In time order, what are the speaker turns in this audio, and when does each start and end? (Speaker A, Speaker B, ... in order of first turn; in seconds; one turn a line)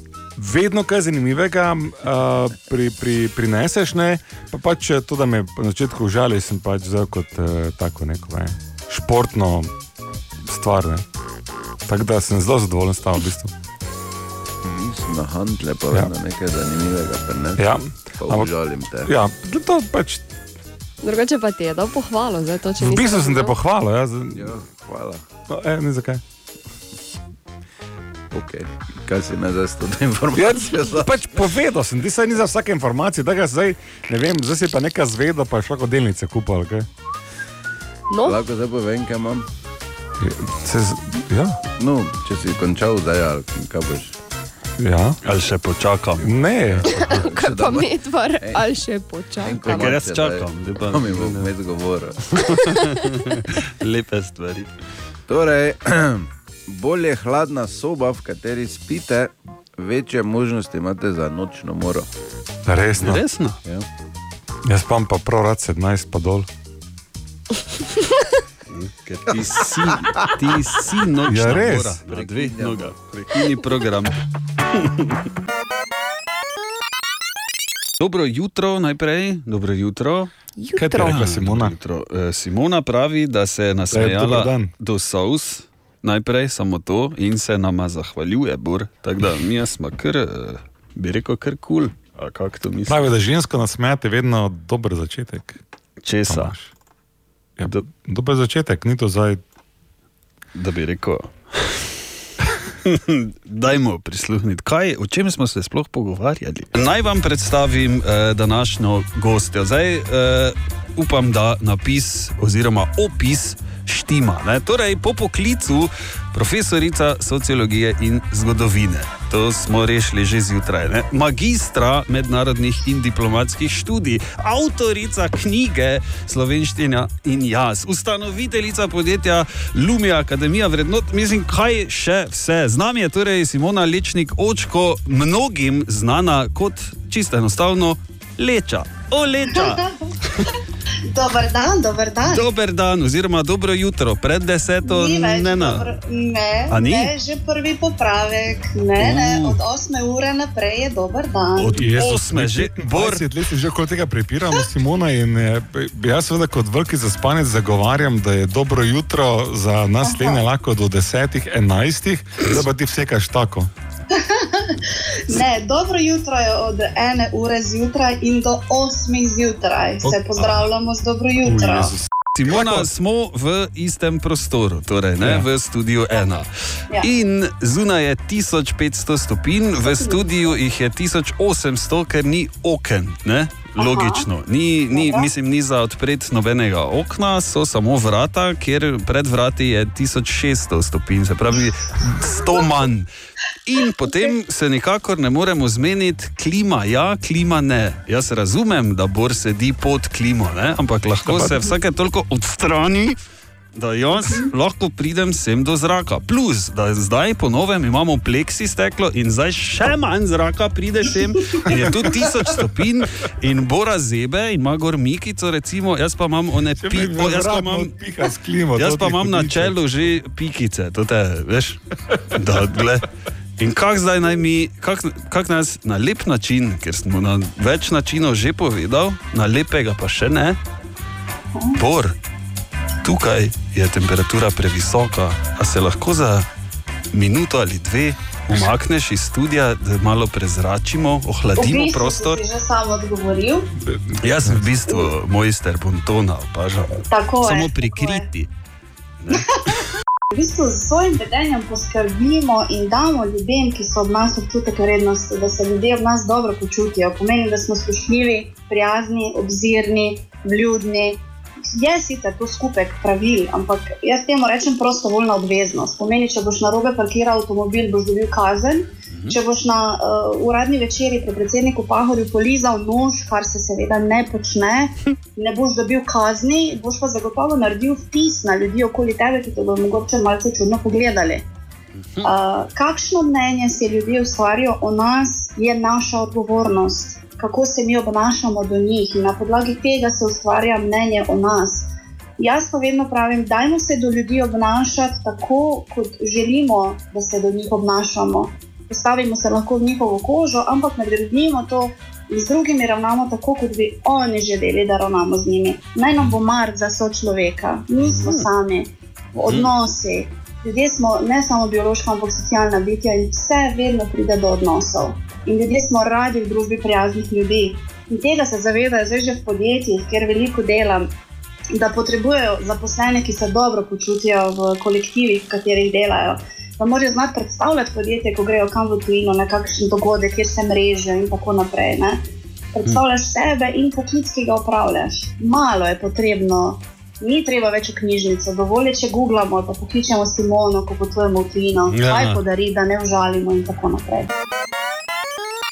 Speaker A: 0.4-9.7
Speaker A: 10.4-11.1
Speaker A: 11.9-13.5
Speaker B: 14.6-19.1
Speaker A: 17.6-18.5
Speaker A: 19.0-20.3
Speaker C: 21.0-23.6
Speaker A: 22.8-24.6
Speaker B: 24.3-25.2
Speaker A: 25.5-26.2
Speaker B: 28.3-31.1
Speaker A: 30.3-36.9
Speaker C: 38.1-38.4
Speaker B: 38.2-39.5
Speaker A: 40.2-41.6
Speaker B: 41.8-44.2
Speaker A: 44.8-45.2
Speaker D: 45.2-46.9
Speaker A: 46.2-46.9
Speaker B: 46.9-48.6
Speaker C: 46.9-49.9
Speaker B: 49.4-52.5
Speaker D: 49.6-51.5
Speaker D: 52.4-54.7
Speaker B: 55.3-62.1
Speaker A: 62.7-63.2
Speaker D: 63.0-63.6
Speaker A: 64.7-66.5
Speaker D: 68.7-74.2
Speaker A: 71.2-72.0
Speaker B: 72.1-72.9
Speaker D: 74.7-75.2
Speaker D: 78.0-80.3
Speaker C: 80.6-81.1
Speaker A: 80.8-81.8
Speaker D: 81.0-93.1
Speaker A: 83.9-84.7
Speaker A: 92.9-95.6
Speaker D: 96.0-96.5
Speaker A: 96.3-96.7
Speaker A: 97.6-99.4
Speaker D: 100.6-101.9
Speaker D: 102.8-140.5
Speaker E: 139.5-140.1
Speaker E: 141.1-142.5
Speaker D: 142.2-145.9
Speaker E: 144.8-151.9
Speaker D: 146.7-147.1
Speaker D: 149.0-149.6
Speaker D: 151.6-153.3
Speaker A: 151.7-163.7
Speaker E: 160.0-160.4
Speaker E: 164.1-171.9
Speaker A: 171.5-172.9
Speaker D: 172.3-193.1
Speaker A: 175.2-175.5
Speaker E: 179.8-180.2
Speaker E: 183.8-184.3
Speaker E: 184.9-185.3
Speaker D: 193.7-203.2
Speaker A: 201.3-201.7
Speaker D: 203.8-217.9
Speaker A: 216.8-219.8
Speaker D: 218.8-230.6
Speaker E: 231.6-231.8
Speaker D: 231.8-232.2
Speaker D: 233.0-236.5
Speaker D: 237.1-242.4
Speaker E: 241.6-243.7
Speaker A: 243.8-244.7
Speaker D: 244.2-248.5
Speaker E: 247.1-248.3
Speaker D: 249.2-249.8
Speaker E: 250.3-281.5
Speaker D: 269.1-269.4
Speaker D: 282.0-282.3
Speaker E: 282.2-321.1
Speaker D: 308.0-308.5
Speaker D: 309.4-309.7
Speaker E: 321.7-344.3
Speaker D: 341.9-342.4